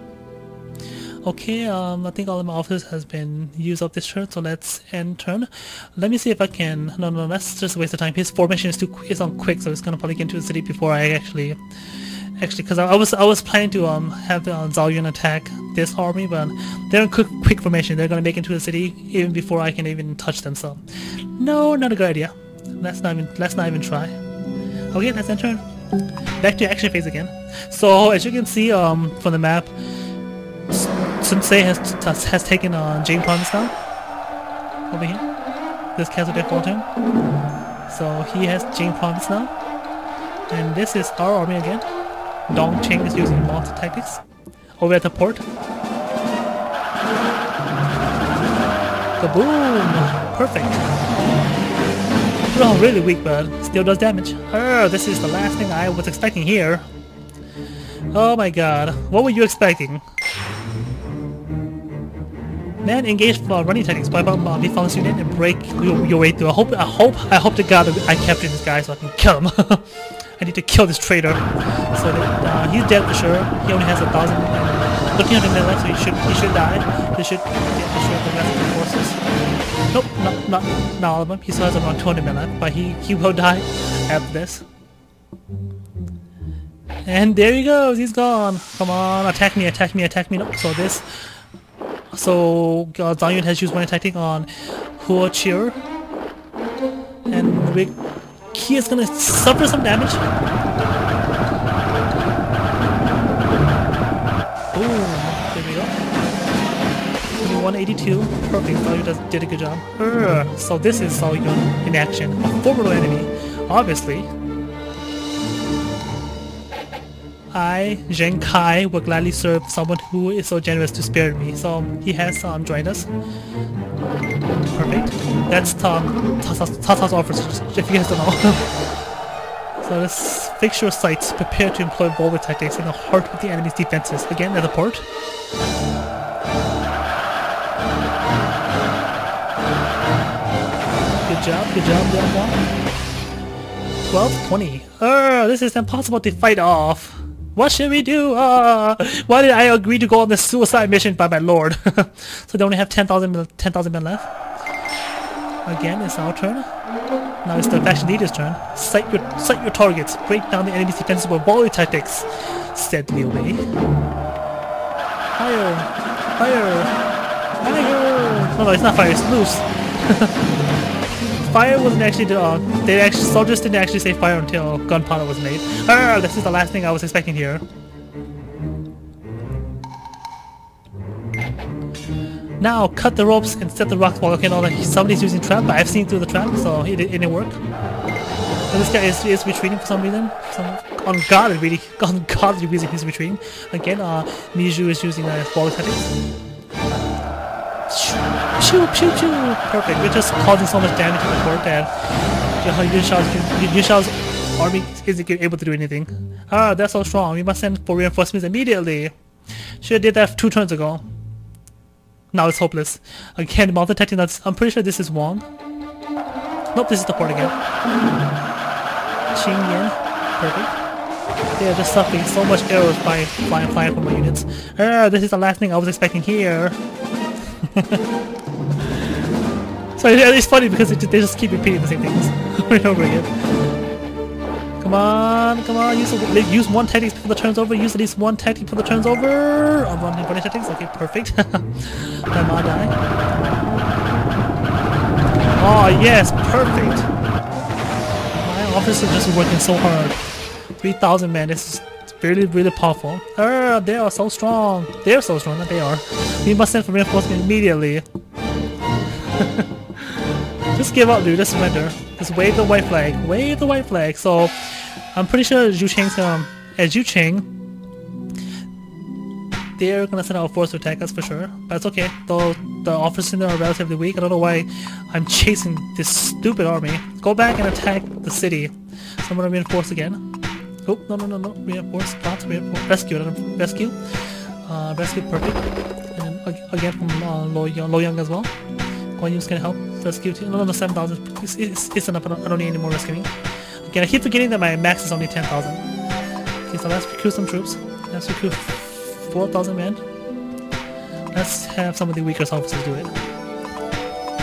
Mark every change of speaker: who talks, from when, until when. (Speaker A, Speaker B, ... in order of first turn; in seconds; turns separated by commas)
Speaker A: 1.2-11.6, Speaker A: 12.4-20.8, Speaker A: 21.3-24.1, Speaker A: 24.9-25.6, Speaker A: 26.4-29.7, Speaker A: 30.7-33.7, Speaker A: 34.9-35.2, Speaker A: 36.0-36.9, Speaker A: 37.9-39.5, Speaker A: 40.5-41.9, Speaker A: 42.5-44.2, Speaker A: 44.8-45.4, Speaker A: 49.2-50.9, Speaker A: 52.5-56.9, Speaker A: 58.1-60.0, Speaker A: 62.8-79.2, Speaker A: 79.9-84.6, Speaker A: 87.0-91.0, Speaker A: 92.1-95.8, Speaker A: 97.3-98.0, Speaker A: 98.5-100.2, Speaker A: 104.7-106.0, Speaker A: 107.4-114.3, Speaker A: 117.5-123.1, Speaker A: 124.6-128.7, Speaker A: 129.8-135.0, Speaker A: 141.2-142.6, Speaker A: 144.0-154.3, Speaker A: 155.7-156.7, Speaker A: 157.4-163.7, Speaker A: 165.3-166.9, Speaker A: 167.6-170.5, Speaker A: 171.2-177.6, Speaker A: 182.6-187.6, Speaker A: 188.7-196.1, Speaker A: 197.9-201.9, Speaker A: 202.6-209.1, Speaker A: 209.8-211.0, Speaker A: 212.3-215.4, Speaker A: 216.7-217.6, Speaker A: 219.3-220.8, Speaker A: 221.6-226.8, Speaker A: 227.6-228.0, Speaker A: 230.0-233.3, Speaker A: 234.8-242.9, Speaker A: 245.6-247.1, Speaker A: 248.4-250.2, Speaker A: 250.8-258.0, Speaker A: 259.2-260.2, Speaker A: 260.7-267.5, Speaker A: 269.8-280.2, Speaker A: 280.9-284.0, Speaker A: 284.6-285.6, Speaker A: 286.1-288.5, Speaker A: 289.2-293.3, Speaker A: 293.8-295.8, Speaker A: 296.7-300.0, Speaker A: 301.3-303.1